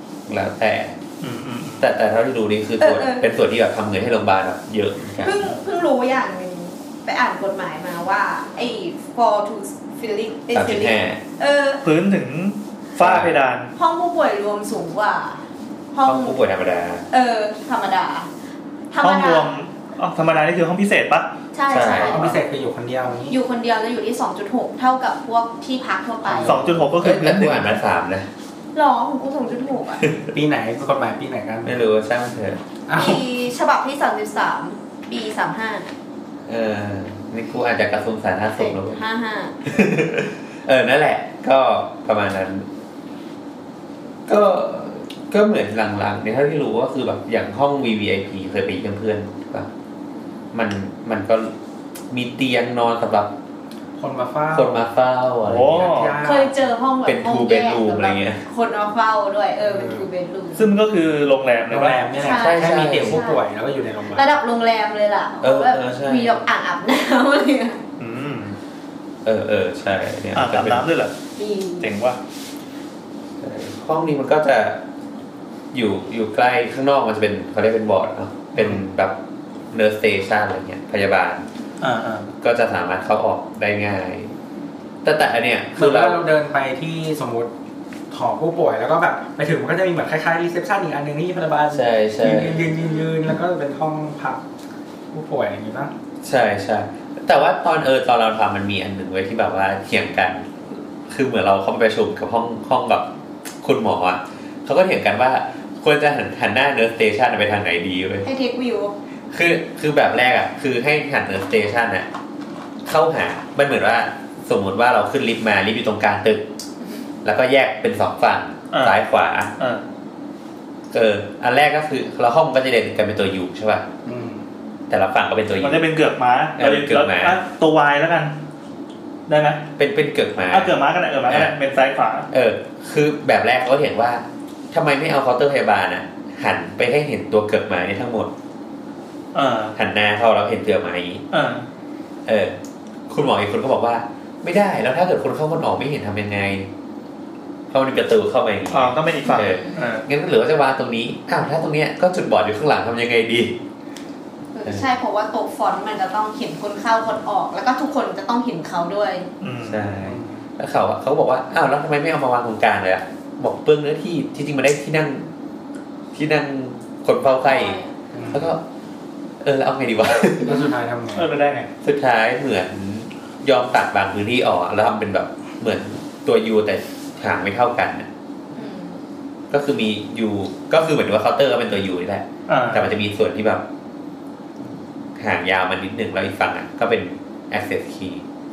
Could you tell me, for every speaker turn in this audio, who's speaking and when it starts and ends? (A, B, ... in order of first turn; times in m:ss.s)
0:00.3-0:01.0 A
0:01.2-0:01.9 B
0:01.8-0:05.4 A
0:02.8-0:03.3 C
0:05.2-0:11.8 C
0:10.5-0:11.2 A
0:11.8-0:13.7 B
0:13.0-0:13.4 A
0:13.8-0:15.4 C
0:15.9-0:16.4 C
0:16.0-0:17.0 A
0:17.1-0:18.3 C
0:18.9-0:19.5 C
0:19.0-0:21.3 B
0:21.5-0:22.2 C
0:21.7-0:22.4 A
0:22.0-0:23.4 D
0:23.3-0:26.6 C
0:26.2-0:26.6 D
0:26.4-0:27.8 B
0:26.9-0:28.3 A
0:28.8-0:30.1 C
0:30.3-0:31.7 D
0:31.6-0:32.6 A
0:32.9-0:33.2 D
0:32.9-0:35.9 C
0:36.4-0:39.0 A
0:38.6-0:39.6 C
0:39.7-0:42.7 A
0:44.3-0:49.7 A
0:50.5-0:51.5 A
0:52.1-0:53.3 A
0:54.0-0:54.8 D
0:54.5-0:55.9 A
0:55.4-0:56.2 B
0:55.7-0:56.6 D
0:56.2-1:00.7 C
0:57.0-0:58.4 A
0:59.6-1:00.1 D
1:00.6-1:02.3 B
1:01.7-1:04.3 D
1:02.2-1:03.4 C
1:02.4-1:03.2 A
1:04.1-1:07.8 C
1:05.4-1:06.4 A
1:08.0-1:08.6 B
1:09.2-1:10.9 A
1:10.3-1:11.1 B
1:11.4-1:11.9 C
1:11.8-1:12.2 B
1:13.4-1:14.8 A
1:15.7-1:19.2 A
1:18.6-1:18.8 D
1:19.7-1:21.5 A
1:21.8-1:22.3 B
1:22.4-1:24.3 A
1:25.0-1:26.2 A
1:25.8-1:27.5 D
1:28.1-1:34.4 D
1:31.7-1:32.7 A
1:32.8-1:33.1 C
1:35.1-1:35.9 D
1:36.2-1:43.1 A
1:43.6-1:48.3 A
1:48.2-1:48.9 C
1:49.3-1:52.1 A
1:52.9-1:56.5 A
1:57.2-1:59.5 A
1:58.7-1:59.0 B
2:00.9-2:03.9 A
2:04.1-2:04.4 D
2:04.9-2:05.9 A
2:05.6-2:08.3 B
2:06.6-2:07.4 A
2:09.3-2:09.6 B
2:09.8-2:10.7 A
2:10.5-2:12.3 B
2:11.3-2:11.5 A
2:12.3-2:18.3 A
2:19.3-2:19.8 B
2:19.8-2:21.2 A
2:21.3-2:21.7 B
2:22.3-2:22.6 A
2:23.1-2:26.7 A
2:27.7-2:33.6 A
2:28.7-2:30.0 B
2:29.2-2:29.9 C
2:34.6-2:39.3 C
2:39.4-2:39.9 B
2:39.6-2:45.3 A
2:40.0-2:40.4 D
2:46.1-2:47.8 A
2:47.4-2:47.9 C
2:48.1-2:48.5 D
2:48.3-2:48.6 A
2:49.4-2:50.7 A
2:50.4-2:51.3 D
2:50.5-2:50.7 C
2:51.2-2:51.7 B
2:51.8-2:58.1 A
2:58.6-2:59.0 C
2:59.5-3:03.6 A
3:02.5-3:02.9 B
3:05.2-3:08.2 A